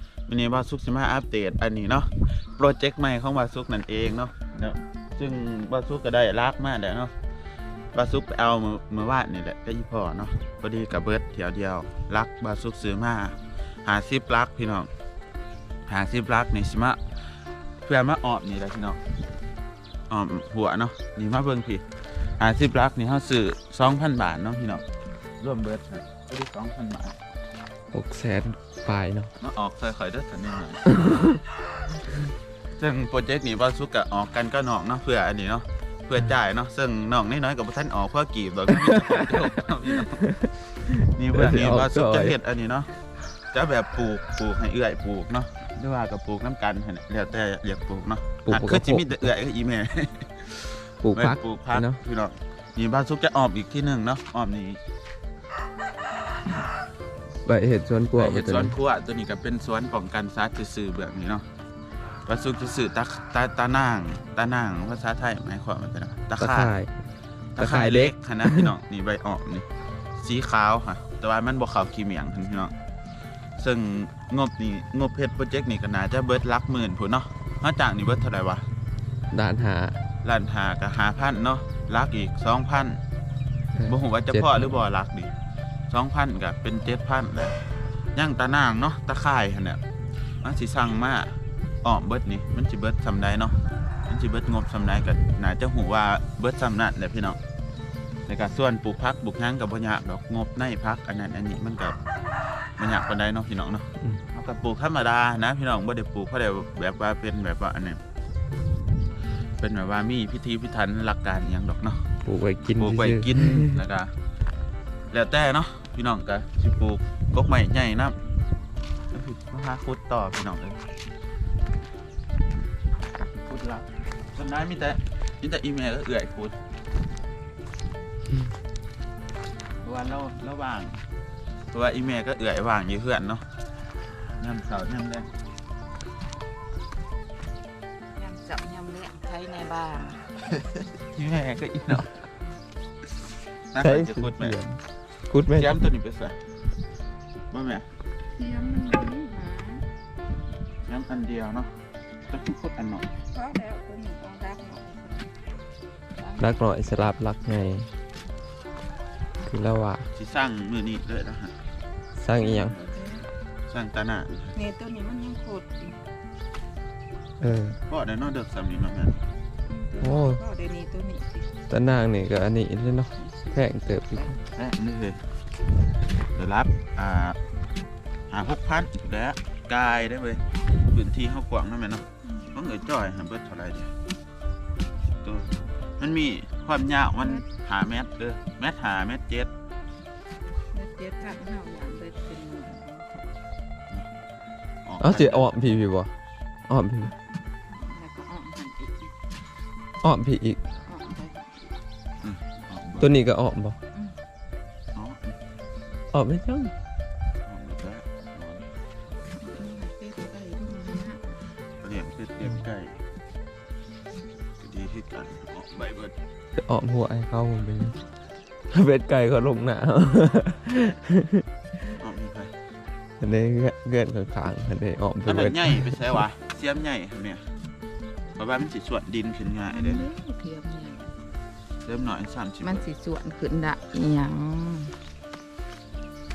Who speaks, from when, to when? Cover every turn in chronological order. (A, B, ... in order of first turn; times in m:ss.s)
0:00.3-0:07.1 A
0:07.9-0:14.9 A
0:15.9-0:17.0 A
0:17.8-0:19.0 A
0:20.1-0:24.8 A
0:25.4-0:27.2 A
0:27.9-0:29.3 B
0:29.4-0:31.0 A
0:31.0-0:31.4 B
0:32.8-0:40.3 A
0:38.9-0:39.5 B
0:40.2-0:42.4 B
0:41.0-0:42.9 A
0:43.5-0:54.8 A
0:48.4-0:49.1 B
0:51.0-0:52.0 B
0:57.4-0:58.7 B
0:58.2-1:01.4 A
1:02.2-1:06.7 A
1:06.4-1:06.9 B
1:07.6-1:09.7 A
1:07.6-1:08.7 B
1:10.2-1:12.7 A
1:13.6-1:18.6 A
1:19.3-1:20.0 B
1:20.2-1:23.0 A
1:23.8-1:24.7 B
1:23.8-1:25.3 A
1:25.9-1:27.6 A
1:28.1-1:29.8 A
1:30.4-1:33.6 A
1:34.1-1:37.4 A
1:38.3-1:42.0 A
1:42.8-1:48.0 A
1:49.6-1:52.1 A
1:52.2-1:53.8 B
1:52.8-1:54.1 A
1:55.1-1:58.2 A
1:59.1-2:00.8 A
2:03.4-2:06.6 A
2:09.8-2:11.0 A
2:11.7-2:13.4 A
2:14.4-2:15.3 A
2:18.2-2:20.3 C
2:21.1-2:22.1 A
2:23.7-2:24.6 A
2:23.8-2:25.8 B
2:25.5-2:26.4 A
2:27.5-2:27.8 A
2:28.4-2:29.8 C
2:30.9-2:31.7 A
2:32.2-2:33.1 A
2:33.3-2:35.3 C
2:36.2-2:36.6 C
2:36.4-2:37.9 B
2:39.4-2:40.1 B
2:40.2-2:41.5 A
2:42.2-2:42.8 B
2:42.4-2:43.3 C
2:43.7-2:44.5 A
2:44.5-2:46.0 C
2:47.4-2:47.8 B
2:47.9-2:49.2 A
2:49.7-2:51.5 C
2:50.0-2:50.4 B
2:51.7-2:54.4 B
2:53.2-2:53.6 C
2:54.5-2:55.2 A
2:56.3-2:57.4 A
2:58.3-3:03.9 A
3:05.2-3:09.5 A
3:10.7-3:13.1 C
3:14.8-3:15.9 A
3:15.0-3:16.1 B
3:16.7-3:17.1 B
3:17.7-3:19.1 C
3:20.0-3:20.6 B
3:20.8-3:21.7 C
3:22.2-3:23.1 A
3:23.0-3:23.8 B
3:24.9-3:25.3 A
3:26.1-3:26.7 B
3:27.4-3:28.6 A
3:29.3-3:31.2 C
3:31.8-3:33.0 A
3:34.6-3:36.1 A
3:36.6-3:38.0 B
3:38.7-3:41.4 B
3:41.9-3:42.5 A
3:43.2-3:46.2 B
3:45.2-3:47.5 A
3:48.4-3:50.0 A
3:49.7-3:51.1 C
3:51.8-3:52.8 A
3:52.6-3:54.9 C